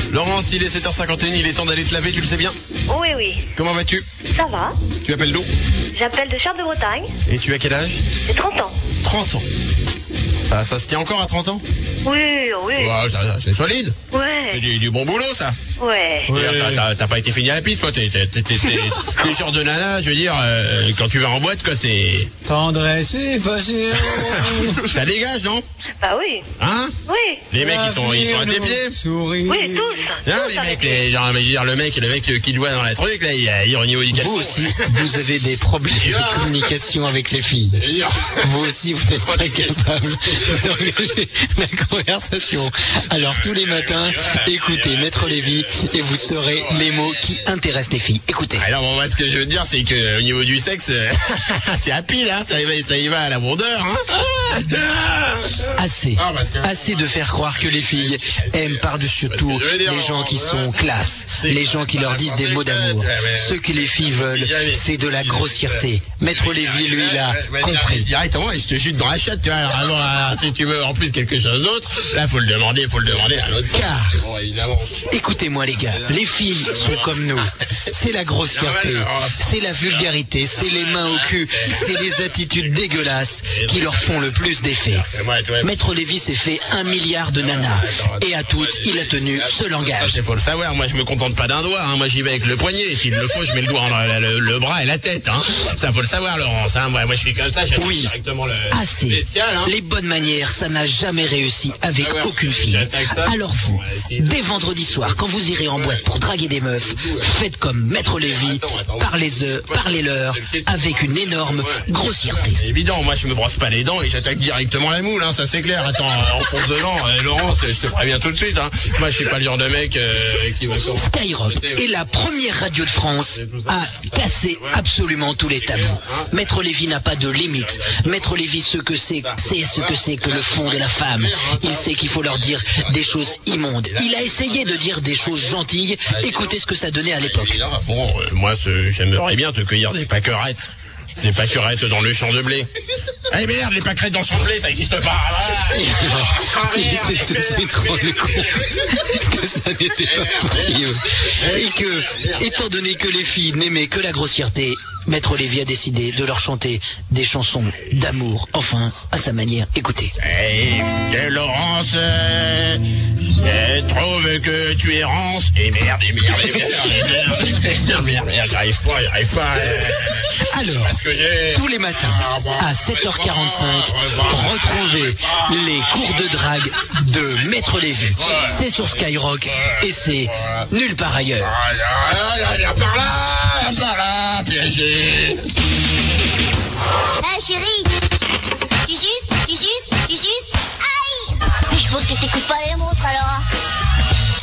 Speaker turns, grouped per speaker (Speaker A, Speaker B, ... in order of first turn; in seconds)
Speaker A: 0.1-2.6, 3.5-4.0, 5.0-5.5, 7.3-8.0, 9.0-9.5, 10.4-11.6, 12.8-14.0, 14.5-15.6, 16.3-22.3, 24.1-25.6, 26.6-26.9, 27.5-29.0, 30.2-35.2, 35.8-36.8, 37.7-38.6, 39.1-41.1, 43.1-47.5, 48.5-60.8, 61.4-75.2, 75.8-77.7, 78.5-86.1, 86.7-99.7, 101.5-106.2, 106.8-107.3, 108.0-124.8, 125.5-128.4, 129.2-136.6, 137.2-142.7, 143.3-148.8, 149.9-152.7, 160.2-176.4, 177.6-180.7, 181.4-185.5
Speaker B: 2.9-3.4, 4.3-4.8, 5.9-7.1, 8.3-8.8, 12.0-12.9, 14.1-14.6, 15.8-16.3, 26.0-26.4, 27.1-27.4, 29.5-31.1
Speaker C: 16.3-16.8, 22.4-24.8, 27.6-30.1
Speaker D: 34.1-37.8, 38.4-48.6, 55.8-68.1, 73.7-74.2, 75.1-85.1, 85.6-90.2, 97.8-98.1, 98.7-112.6, 120.9-137.6, 145.7-160.1, 166.4-166.8, 170.3-171.0, 171.5-181.5
Speaker E: 187.2-187.9, 188.8-193.5